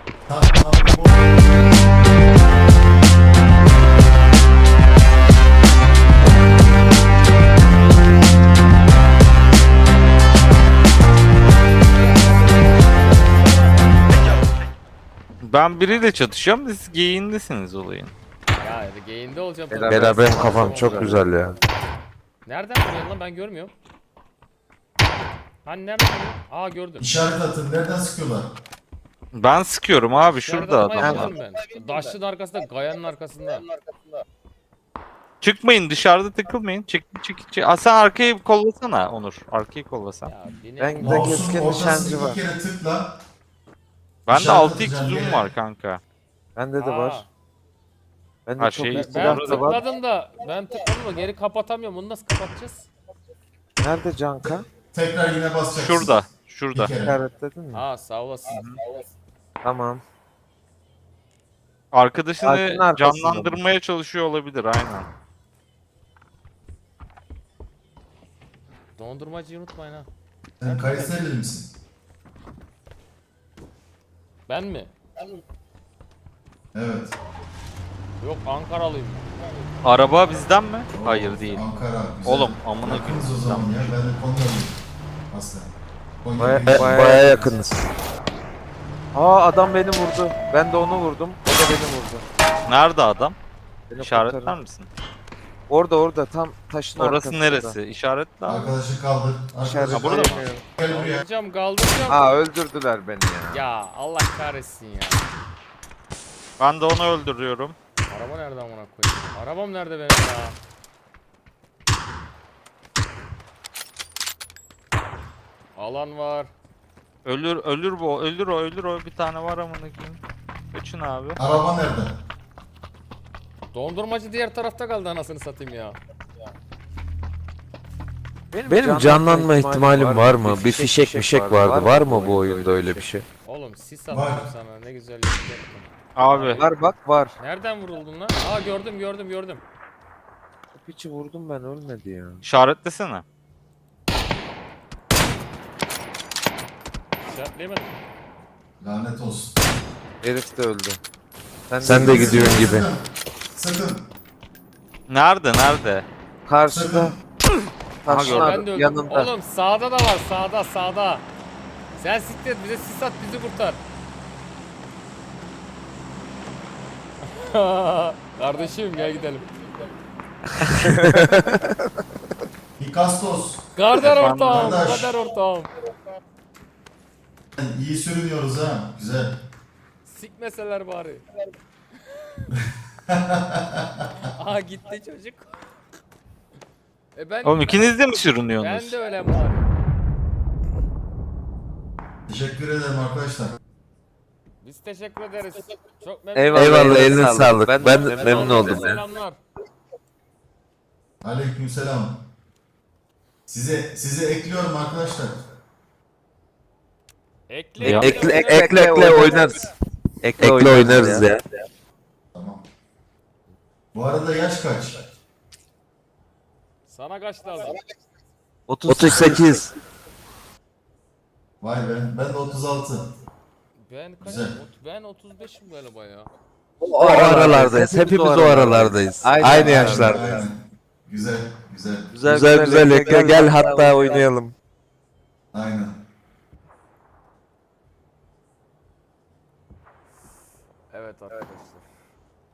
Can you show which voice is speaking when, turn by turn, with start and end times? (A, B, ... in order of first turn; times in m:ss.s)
0:00.3-0:01.7 A
0:15.4-0:18.1 B
0:18.5-0:21.7 C
0:19.7-0:21.6 D
0:19.8-0:21.4 E
0:22.4-0:23.7 C
0:25.6-0:27.1 C
0:27.0-0:28.5 A
0:29.3-0:31.3 B
0:30.1-0:33.7 C
0:31.0-0:31.3 D
0:35.4-0:40.3 B
0:40.2-0:41.6 C
0:40.8-0:42.4 D
0:41.0-0:43.1 A
0:44.2-0:46.0 B
0:44.3-0:45.5 A
0:46.6-0:47.2 D
0:46.8-0:47.3 C
0:48.5-0:49.8 D
0:48.6-0:49.8 B
0:48.9-0:52.9 C
0:53.8-0:54.7 D
0:54.9-0:57.2 A
0:55.7-0:56.9 B
0:57.0-0:57.8 D
0:57.7-0:58.8 C
0:58.5-0:58.8 B
0:59.6-1:00.0 D
1:01.9-1:05.1 B
1:02.4-1:03.6 D
1:09.0-1:10.1 C
1:10.6-1:11.7 A
1:10.6-1:11.3 C
1:14.5-1:14.9 C
1:16.7-1:17.1 A
1:18.2-1:19.3 C
1:19.8-1:21.7 B
1:20.9-1:24.8 A
1:22.2-1:24.1 B
1:25.3-1:27.2 A
1:26.4-1:27.6 D
1:26.6-1:27.8 E
1:29.1-1:32.2 D
1:32.7-1:33.4 B
1:33.9-1:34.6 D
1:34.0-1:34.9 B
1:35.7-1:37.8 D
1:37.0-1:38.7 B
1:38.4-1:41.2 A
1:39.6-1:40.6 D
1:39.9-1:40.5 B
1:40.8-1:42.4 C
1:42.1-1:43.6 D
1:43.5-1:45.4 C
1:46.6-1:47.8 B
1:48.1-1:50.6 C
1:55.8-1:56.5 C
1:57.2-2:00.2 B
2:00.7-2:01.4 B
2:01.4-2:02.2 A
2:03.7-2:06.0 C
2:08.5-2:13.2 D
2:08.7-2:13.2 E
2:13.4-2:16.7 C
2:14.1-2:14.5 A
2:16.2-2:16.6 B
2:16.6-2:17.3 D
2:17.4-2:19.6 C
2:20.7-2:22.4 D
2:22.4-2:23.2 B
2:27.2-2:28.0 C
2:28.8-2:29.6 A
2:30.2-2:31.0 D
2:31.7-2:32.7 D
2:31.8-2:32.9 E
2:31.9-2:34.0 A
2:35.1-2:36.0 B
2:36.5-2:37.1 D
2:36.7-2:37.2 A
2:38.0-2:39.3 D
2:38.0-2:38.7 B
2:38.2-2:41.3 C
2:42.0-2:43.8 C
2:47.2-2:49.5 C
2:50.8-2:51.2 D
2:52.8-2:55.1 A
2:53.8-2:55.7 C
2:54.0-2:54.8 B
2:57.6-2:59.3 A
3:00.0-3:01.2 C
3:03.1-3:03.8 A
3:04.2-3:05.8 C
3:07.1-3:09.7 C
3:07.4-3:09.0 B
3:12.3-3:13.6 A
3:14.6-3:19.4 C
3:16.3-3:18.9 D
3:16.5-3:19.0 E
3:21.2-3:22.2 A
3:23.5-3:25.4 A
3:27.5-3:29.5 C
3:27.8-3:28.2 B
3:27.8-3:29.6 D
3:28.3-3:29.6 E
3:30.2-3:31.3 D
3:30.4-3:31.4 E
3:32.3-3:32.6 A
3:33.9-3:35.0 A
3:36.8-3:37.8 C
3:38.7-3:39.6 D
3:38.8-3:39.7 E
3:41.6-3:43.1 A
3:43.8-3:46.3 C
3:44.2-3:44.6 A
3:46.8-3:50.4 D
3:46.9-3:50.4 E
3:49.4-3:52.1 A
3:52.1-3:54.3 D
3:52.2-3:54.5 E
3:53.2-3:54.2 C
3:55.5-3:56.0 A
4:00.9-4:01.8 C